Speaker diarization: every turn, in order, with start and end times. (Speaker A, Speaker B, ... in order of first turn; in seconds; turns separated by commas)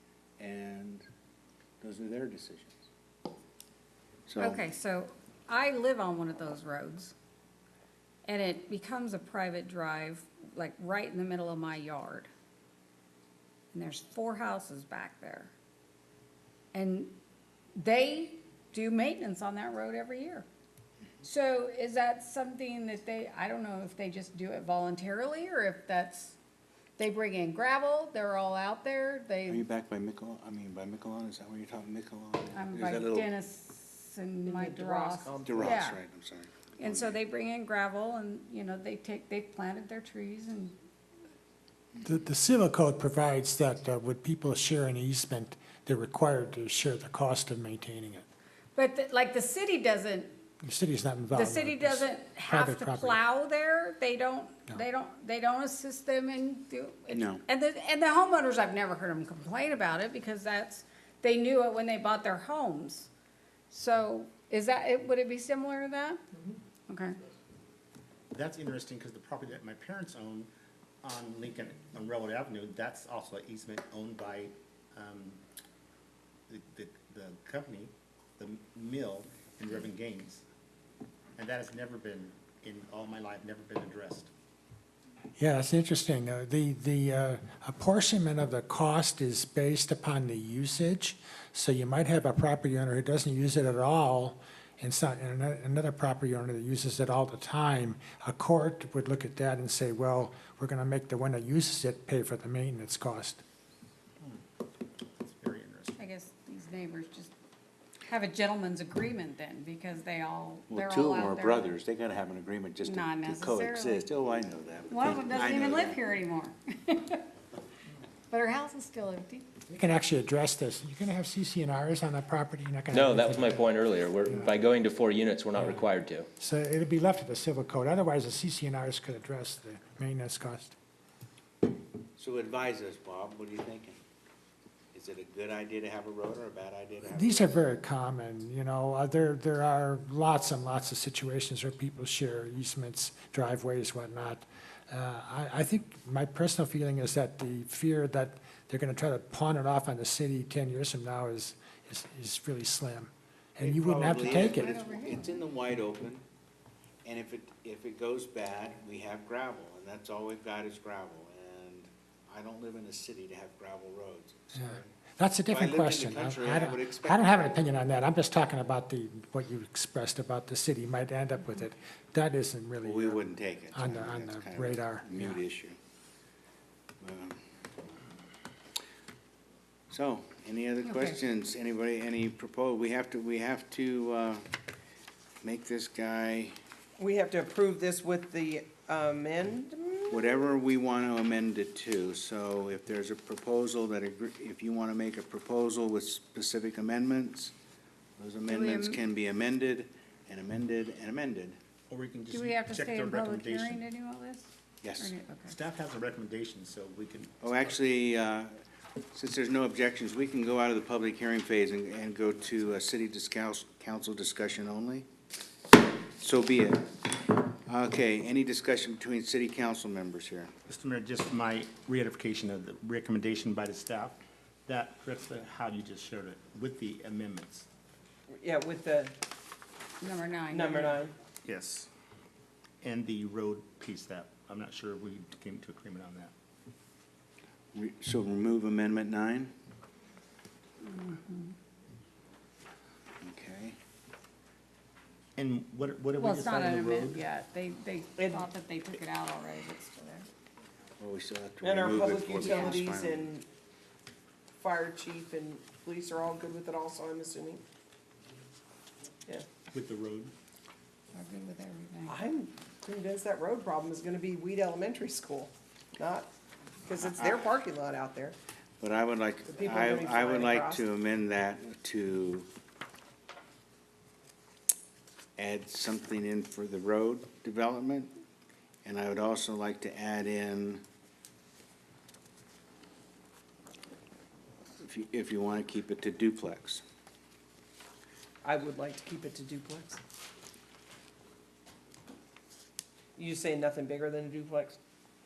Speaker A: 0.4-1.1, Speaker A: 1.8-2.9, Speaker A: 4.3-4.6, Speaker B: 4.4-7.1, Speaker B: 8.3-12.3, Speaker B: 13.7-15.5, Speaker B: 16.7-17.2, Speaker B: 17.8-20.5, Speaker B: 21.2-26.4, Speaker B: 27.0-29.6, Speaker A: 29.5-33.3, Speaker B: 32.5-36.0, Speaker C: 34.5-35.8, Speaker A: 35.5-37.2, Speaker B: 36.8-40.8, Speaker D: 42.0-48.2, Speaker B: 48.8-50.4, Speaker D: 50.6-53.2, Speaker B: 51.3-63.1, Speaker A: 57.1-57.4, Speaker B: 63.7-66.2, Speaker B: 66.9-67.2, Speaker E: 68.3-70.5, Speaker E: 71.0-75.4, Speaker E: 76.5-80.4, Speaker E: 81.4-84.3, Speaker D: 85.4-103.4, Speaker E: 105.2-106.0, Speaker B: 106.0-107.3, Speaker B: 108.1-111.8, Speaker A: 110.7-116.0, Speaker B: 112.8-114.1, Speaker B: 114.9-117.3, Speaker B: 118.3-119.5, Speaker D: 119.7-123.7, Speaker F: 122.9-126.3, Speaker D: 125.6-125.8, Speaker D: 126.4-130.8, Speaker A: 132.2-134.0, Speaker A: 134.9-137.6, Speaker D: 137.1-154.7, Speaker A: 153.6-156.2, Speaker B: 154.0-155.4, Speaker A: 157.0-164.9, Speaker D: 164.6-175.4, Speaker A: 165.5-167.7, Speaker A: 172.8-175.8, Speaker A: 177.0-177.4, Speaker A: 179.9-184.5, Speaker B: 180.9-181.1, Speaker A: 185.4-186.6, Speaker C: 187.0-190.3, Speaker A: 190.1-197.5, Speaker A: 198.2-201.6, Speaker B: 198.5-199.0, Speaker E: 201.9-203.8, Speaker B: 202.3-205.6, Speaker A: 204.8-205.1, Speaker E: 205.5-207.7, Speaker A: 207.4-208.6, Speaker A: 209.1-215.1, Speaker A: 216.2-220.5, Speaker E: 220.7-227.7, Speaker C: 228.3-229.1, Speaker B: 230.0-231.0, Speaker C: 230.5-231.1, Speaker E: 231.4-231.9, Speaker E: 232.8-236.3, Speaker A: 237.7-239.5, Speaker B: 240.8-241.5, Speaker A: 243.2-243.8, Speaker E: 245.4-247.2, Speaker B: 246.2-250.3, Speaker C: 248.2-248.5, Speaker A: 251.0-253.3, Speaker C: 251.6-253.5, Speaker B: 252.3-252.8, Speaker C: 254.6-257.6, Speaker E: 259.7-260.3, Speaker B: 261.1-262.2, Speaker C: 262.1-266.3, Speaker C: 266.9-268.4, Speaker A: 268.8-272.5, Speaker C: 269.5-270.8, Speaker A: 275.4-278.1, Speaker A: 278.8-280.8, Speaker A: 284.8-286.8, Speaker C: 288.4-290.0, Speaker C: 293.2-294.8